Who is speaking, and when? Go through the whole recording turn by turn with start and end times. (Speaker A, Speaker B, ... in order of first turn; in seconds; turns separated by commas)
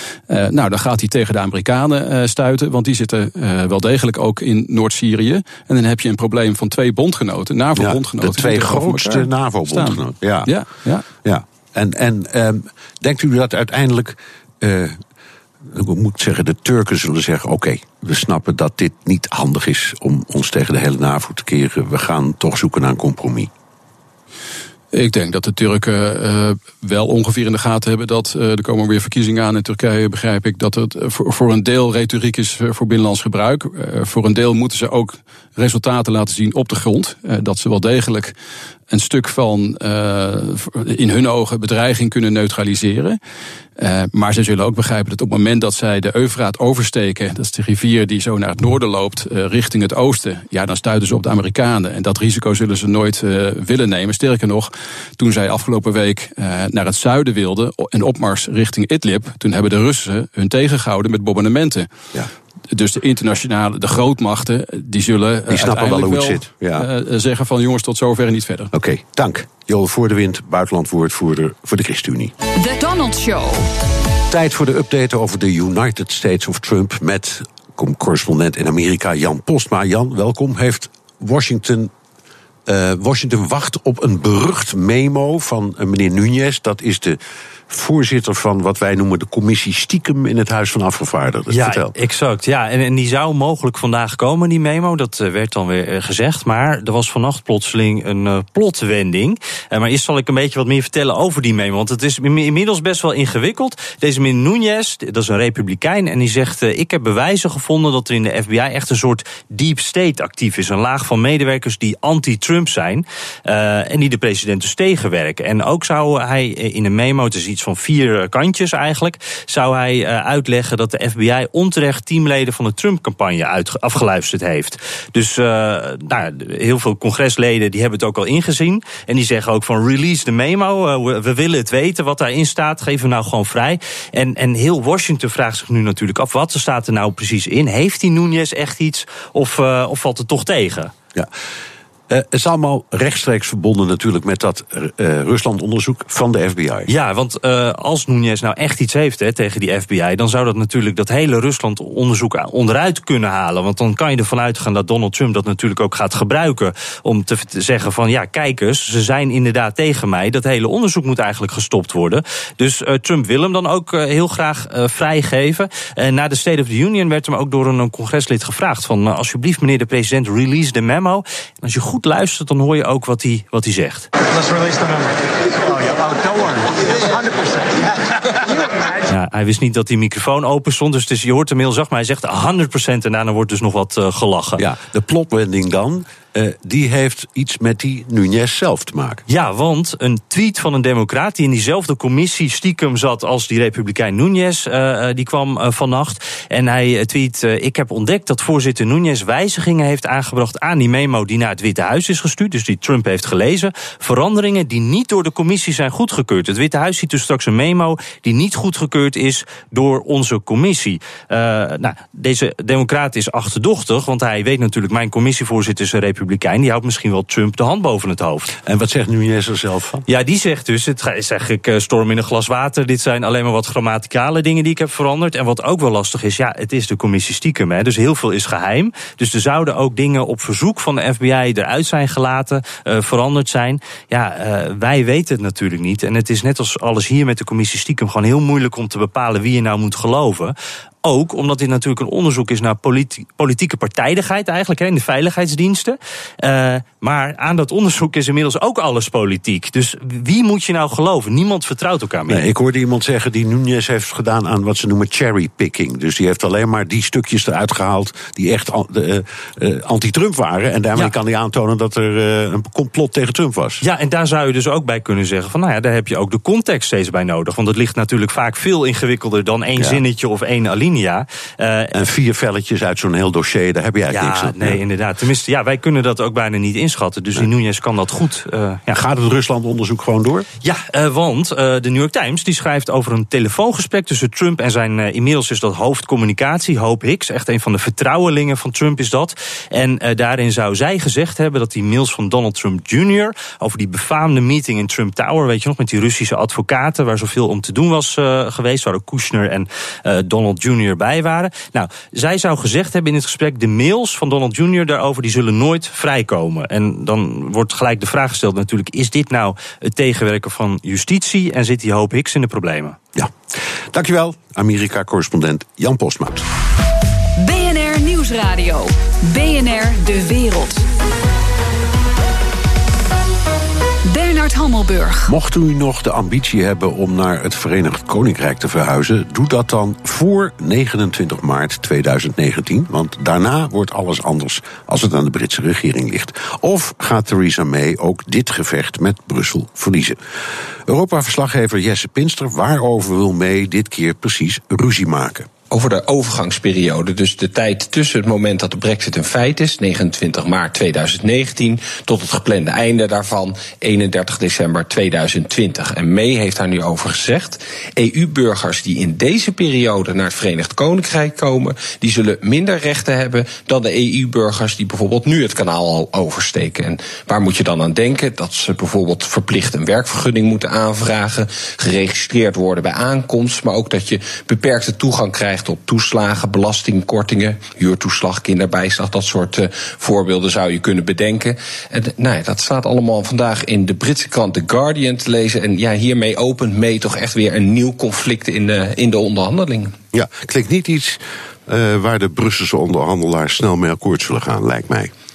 Speaker A: 0.3-11.1, Speaker B: 7.8-10.5, Speaker B: 11.2-15.0, Speaker B: 15.7-23.5, Speaker A: 24.9-38.3, Speaker A: 38.9-43.2, Speaker A: 43.8-61.9, Speaker A: 62.7-68.7, Speaker B: 65.5-66.9, Speaker B: 68.7-72.3, Speaker C: 72.5-73.7, Speaker B: 74.3-81.9, Speaker B: 82.7-91.9, Speaker D: 91.5-140.9, Speaker B: 142.1-146.9, Speaker D: 146.9-174.1, Speaker E: 174.2-178.6, Speaker D: 179.1-184.6, Speaker B: 184.6-189.2, Speaker D: 189.3-218.5, Speaker B: 218.6-220.1, Speaker D: 220.1-252.4, Speaker B: 252.3-263.8, Speaker D: 263.8-271.9, Speaker B: 271.9-274.8, Speaker D: 274.1-279.0, Speaker B: 278.9-280.5, Speaker D: 280.6-313.0, Speaker B: 313.9-316.4, Speaker C: 317.4-320.8, Speaker C: 324.1-325.3, Speaker B: 325.3-340.2, Speaker B: 340.9-345.5, Speaker F: 345.7-389.9, Speaker B: 390.1-395.1